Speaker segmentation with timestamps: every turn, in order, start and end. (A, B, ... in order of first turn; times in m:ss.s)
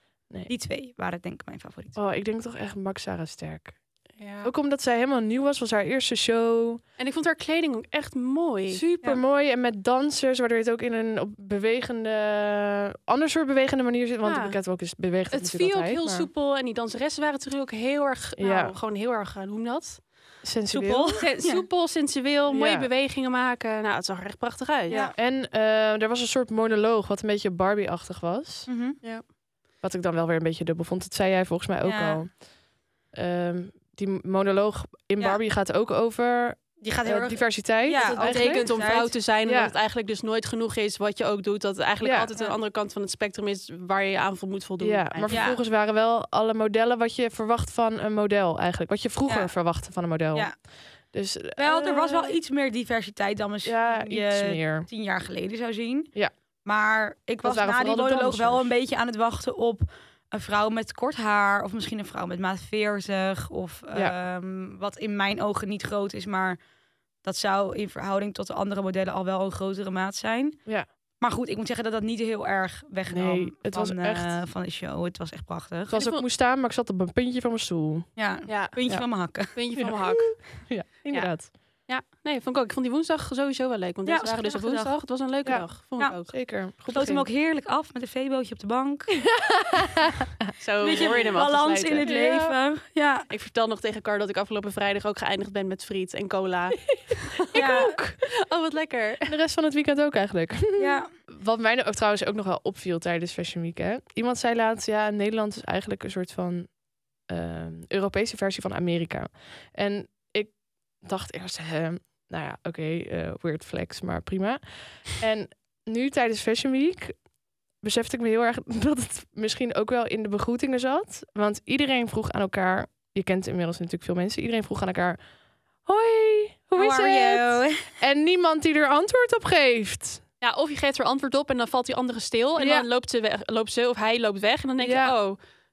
0:00.5-0:02.0 A
0:02.0-0:03.8 B
0:04.2-0:04.5 C
0:04.4-0:06.8 B
0:07.0-0:08.8 C
0:08.7-0:16.3 B
0:14.2-0:14.6 C
0:15.3-0:20.0 C
0:18.4-0:18.8 B
0:20.4-0:21.2 B
0:20.7-0:21.7 A
0:21.2-0:25.0 C
0:22.5-0:22.9 B
0:24.9-0:25.2 A
0:24.9-0:28.7 B
0:28.7-0:29.0 A
0:29.8-0:32.4 B
0:31.8-0:32.2 A
0:33.1-0:39.7 B
0:36.8-0:39.2 A
0:38.0-0:45.4 C
0:42.0-0:42.3 B
0:44.8-0:52.4 B
0:45.3-0:45.6 A
0:49.3-0:49.5 A
0:51.6-0:56.1 A
0:53.6-0:54.9 B
0:56.6-1:06.6 A
0:57.4-0:58.7 B
1:07.2-1:10.7 A
1:11.2-1:16.0 A
1:13.1-1:14.3 B
1:15.9-1:18.1 B
1:15.9-1:16.2 C
1:18.2-1:19.5 A
1:18.5-1:18.8 C
1:19.4-1:26.3 C
1:19.8-1:21.5 B
1:24.1-1:25.0 A
1:26.3-1:27.3 B
1:26.9-1:29.2 A
1:29.3-1:30.2 B
1:30.6-1:32.1 C
1:30.8-1:33.3 A
1:32.0-1:32.6 B
1:33.3-1:39.3 C
1:37.5-1:38.2 B
1:37.5-1:38.0 A
1:39.3-1:57.2 B
1:40.8-1:41.1 A
1:57.8-2:05.2 B
2:05.8-2:10.2 B
2:06.8-2:07.9 A
2:10.4-2:15.4 C
2:12.6-2:12.9 B
2:14.8-2:15.2 B